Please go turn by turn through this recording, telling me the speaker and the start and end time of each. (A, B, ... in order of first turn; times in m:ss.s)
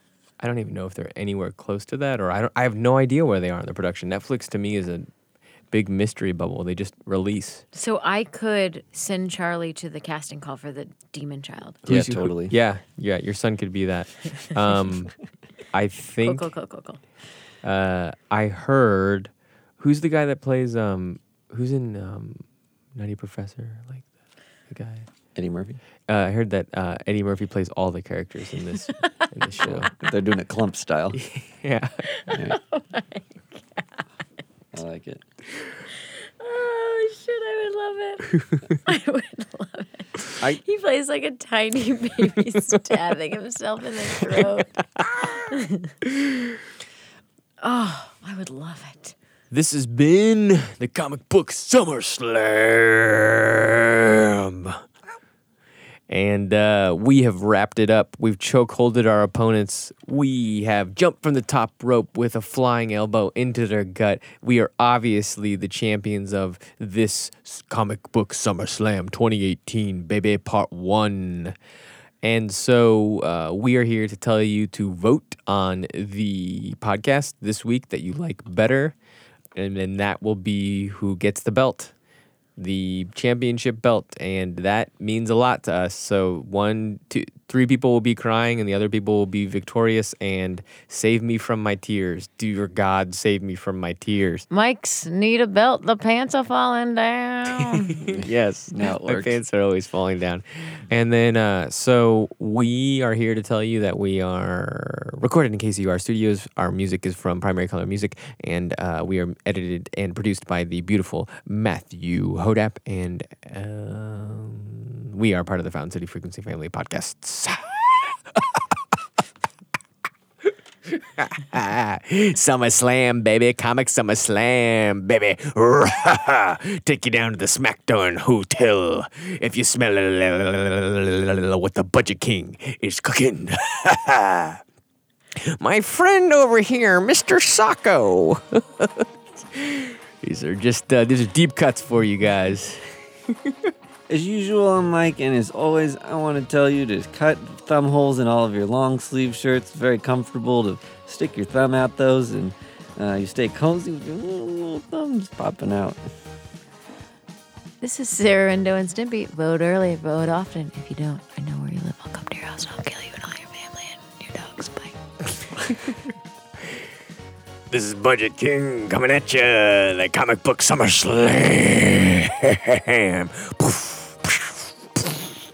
0:00.4-0:05.1 A
0:05.7-0:07.6 A
0:07.7-0:11.8 B
0:11.8-0:12.5 C
0:11.8-0:15.1 A
0:15.7-0:16.5 A
0:16.2-0:17.0 B
0:17.6-0:22.4 A
0:22.9-0:24.0 A
0:24.7-0:25.1 A
0:25.3-0:25.8 C
0:26.1-0:29.9 A
0:29.0-0:29.8 B
0:29.7-0:31.2 C
0:31.1-0:32.1 A
0:32.1-0:34.0 B
0:32.3-0:32.6 C
0:34.7-0:35.2 C
0:35.9-0:38.3 B
0:38.3-0:38.8 A
0:38.8-0:44.8 B
0:44.3-0:45.5 A
0:45.4-0:45.9 B
0:47.6-0:49.1 B
0:49.5-0:54.8 A
0:56.1-1:11.5 A
1:12.2-1:19.0 A
1:19.5-1:21.9 A
1:22.6-1:34.5 A
1:34.5-1:38.1 B
1:37.7-1:58.8 A
1:38.1-1:39.4 C
2:01.2-2:14.6 A
2:15.6-2:23.5 A
2:24.1-2:36.0 C
2:37.8-2:45.0 B
2:47.7-2:55.3 A